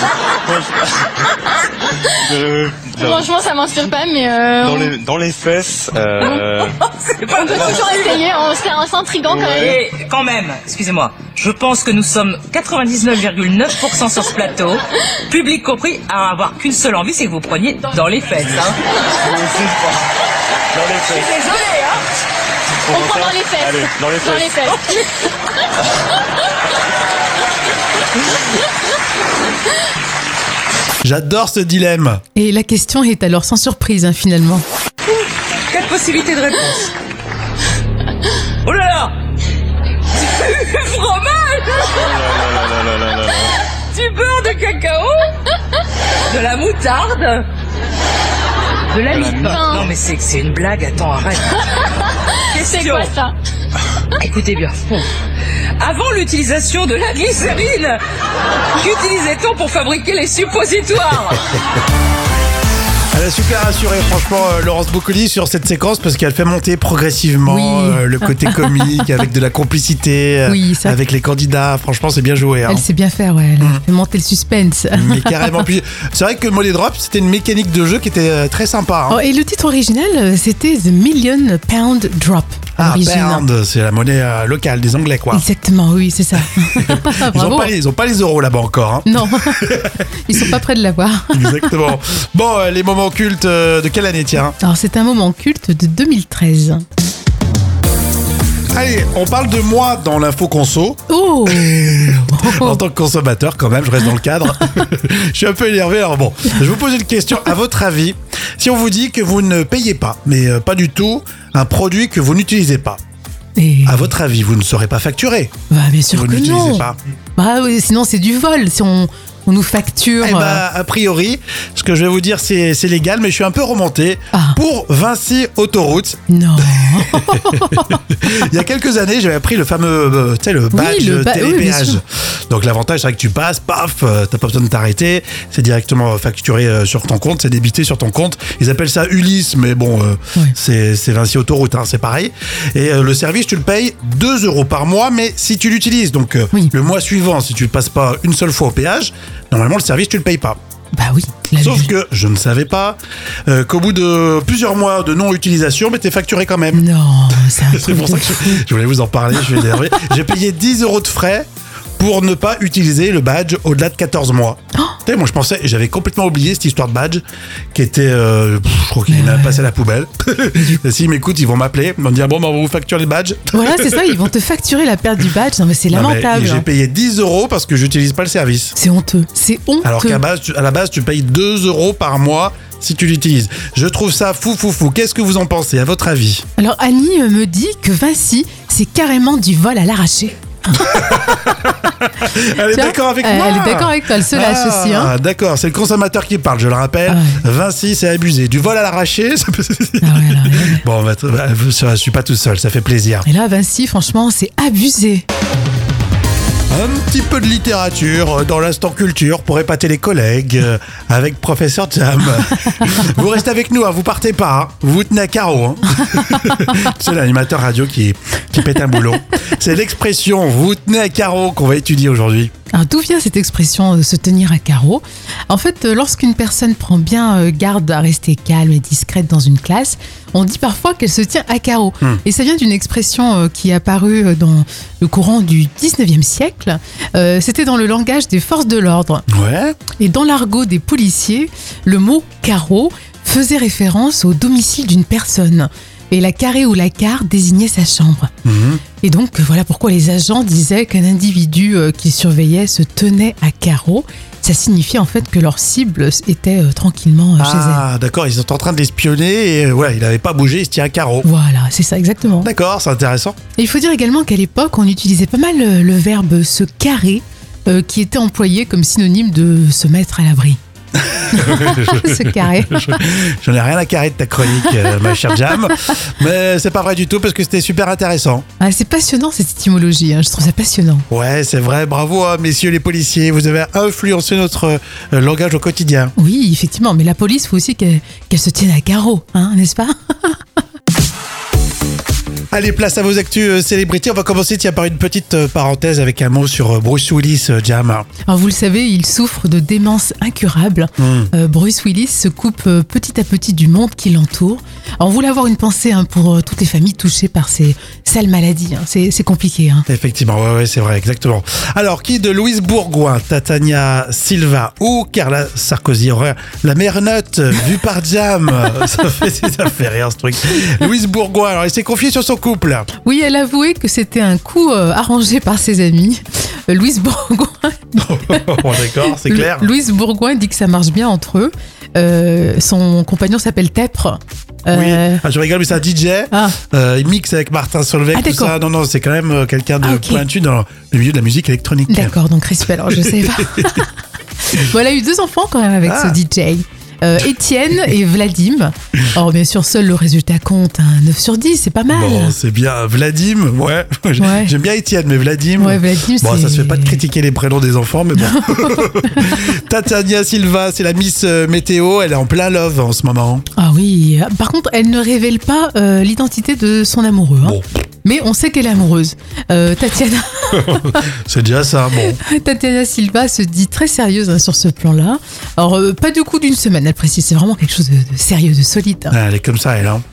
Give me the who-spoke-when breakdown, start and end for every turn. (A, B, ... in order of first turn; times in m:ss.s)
0:00.5-0:00.9 A
0:02.2-0:03.3 A
0:03.0-0:05.0 B
0:04.6-0:06.7 A
0:07.2-0:08.3 C
0:07.4-0:09.7 B
0:09.2-0:09.8 A
0:09.6-0:18.8 C
0:19.2-0:20.0 A
0:20.7-0:21.3 A
0:21.0-0:22.0 C
0:22.9-0:24.7 A
0:22.9-0:24.8 B
0:31.0-0:32.2 D
0:32.4-0:34.6 E
0:35.7-0:36.9 C
0:38.6-0:39.1 C
0:40.2-0:41.9 C
0:41.9-0:43.5 A
0:43.9-0:45.3 C
0:46.3-0:47.5 C
0:48.9-0:51.6 C
0:49.1-0:49.9 A
0:49.5-0:49.8 B
0:52.5-0:53.1 C
0:52.6-0:53.4 B
0:54.2-0:55.1 C
0:55.8-0:58.0 C
0:58.8-1:01.6 C
1:03.1-1:12.8 D
1:07.5-1:09.0 E
1:10.5-1:11.0 E
1:12.7-1:15.7 E
1:14.9-1:19.2 D
1:19.1-1:23.4 E
1:22.8-1:25.4 D
1:25.3-1:27.7 E
1:26.8-1:30.0 D
1:29.1-1:31.7 E
1:31.3-1:34.6 D
1:34.6-1:36.8 E
1:38.7-1:53.0 D
1:41.1-1:42.8 E
1:53.6-1:54.1 E
1:53.9-1:55.5 D
1:55.7-2:00.6 E
1:56.1-1:57.0 D
2:00.2-2:06.2 D
2:04.3-2:04.6 E
2:06.3-2:08.0 E
2:06.8-2:30.6 D
2:10.7-2:12.0 E
2:31.0-2:31.9 E
2:31.6-2:36.8 D
2:36.7-2:38.6 E
2:37.7-2:41.5 D
2:42.0-2:54.2 D
2:49.1-2:49.7 E
2:50.5-2:50.8 E
2:53.5-2:56.6 E
2:55.9-2:58.8 D
2:58.8-3:00.2 E
2:59.8-3:06.4 D
3:06.6-3:11.3 E
3:10.7-3:23.3 D
3:12.7-3:15.1 E
3:17.1-3:17.4 E
3:20.0-3:20.8 E
3:23.2-3:25.2 E
3:26.7-3:42.5 D
3:42.7-3:59.3 E
3:59.3-3:59.8 D
4:00.0-4:08.3 E
4:08.4-4:08.8 D
4:09.0-4:17.9 E
4:17.4-4:21.3 D
4:21.2-4:22.5 E
4:22.4-4:23.4 D
4:23.6-4:30.6 E
4:31.0-4:38.4 D
4:31.3-4:33.0 E
4:34.6-4:35.0 E
4:38.6-4:41.1 E
4:41.1-4:46.1 D
4:46.2-4:50.4 E
4:52.5-4:58.1 D
4:58.3-5:09.9 E
5:01.0-5:01.3 D
5:09.9-5:22.9 D
5:23.0-5:35.2 E
5:28.0-5:29.7 D
5:34.7-5:42.2 D
5:36.3-5:36.6 E
5:38.1-5:38.6 E
5:39.8-5:40.2 E
5:41.9-5:43.9 E
5:42.9-5:43.8 D
5:44.5-5:52.4 E
5:45.9-5:46.2 D
5:51.9-6:03.4 D
5:54.2-5:54.5 E
5:55.6-5:57.0 E
5:58.2-5:59.4 E
6:03.6-6:11.0 E
6:10.5-6:12.2 D
6:12.0-6:19.2 E
6:19.1-6:20.0 D